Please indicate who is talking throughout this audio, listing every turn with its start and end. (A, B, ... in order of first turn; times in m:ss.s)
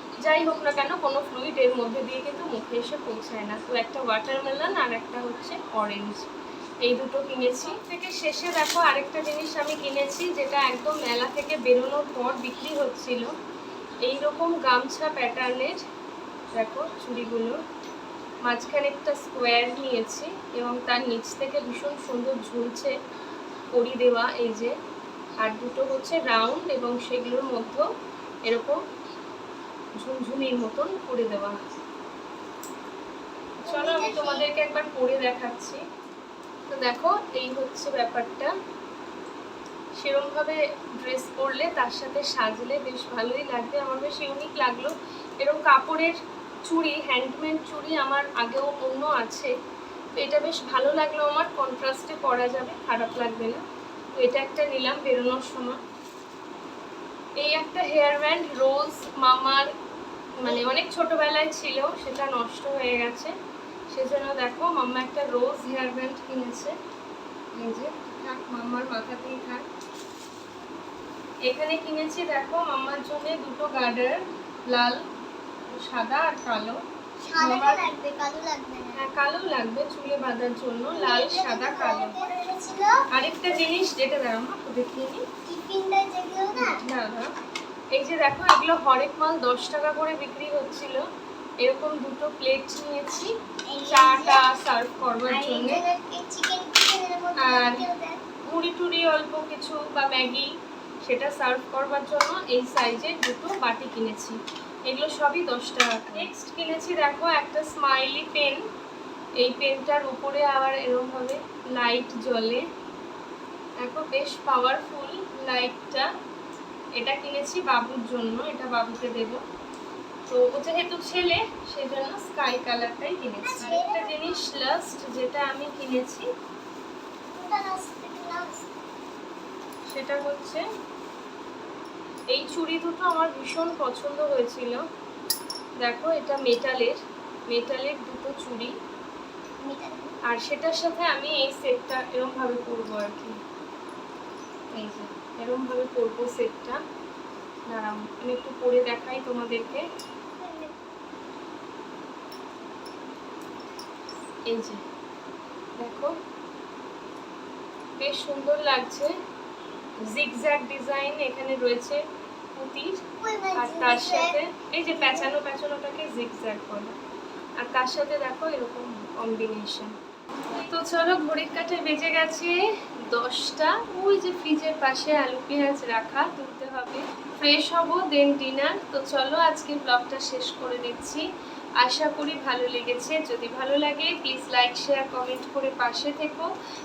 0:00.2-0:06.3 A
0:06.8-0:13.3 A
0:14.0-0:15.8 A
0:16.5-0:17.6 A
0:18.4-0:22.9 A
0:23.7-0:24.7 A
0:25.4-0:27.8 A
0:28.4-0:28.8 A
0:30.0-0:31.6 A
0:33.6-0:34.5 B
0:33.6-0:35.8 A
0:36.7-0:38.5 A
0:40.0-0:49.5 A
0:50.2-0:53.6 A
0:54.2-0:55.8 A
0:57.4-0:59.7 A
1:00.4-1:03.3 A
1:03.9-1:06.7 A
1:07.5-1:09.6 A
1:11.4-1:15.0 A
1:15.7-1:16.8 A
1:17.2-1:19.0 B
1:17.4-1:17.9 A
1:18.9-1:22.2 A
1:20.9-1:23.1 B
1:23.1-1:25.2 A
1:25.4-1:26.8 B
1:26.6-1:27.3 A
1:27.9-1:31.0 A
1:31.6-1:33.3 A
1:33.7-1:34.5 B
1:33.9-1:35.8 A
1:35.3-1:38.2 B
1:37.4-1:37.9 A
1:38.5-1:48.6 A
1:49.4-1:52.6 A
1:53.8-1:56.1 A
1:57.0-1:59.4 A
2:00.3-2:06.2 A
2:03.4-2:04.4 B
2:07.3-2:08.7 B
2:09.9-2:10.6 A
2:12.3-2:14.8 A
2:15.8-2:17.0 A
2:17.5-2:18.7 A
2:19.6-2:20.2 B
2:20.3-2:23.4 A
2:24.7-2:26.8 A
2:27.7-2:29.8 A
2:30.4-2:30.7 B
2:34.5-2:34.8 A
2:35.8-2:36.2 A
2:38.0-2:39.1 A
2:40.0-2:42.0 A
2:42.5-2:43.0 A
2:43.1-2:44.4 B
2:43.6-2:47.0 A
2:44.9-2:45.4 B
2:47.6-2:49.9 A
2:50.5-3:01.2 A
3:01.8-3:06.5 A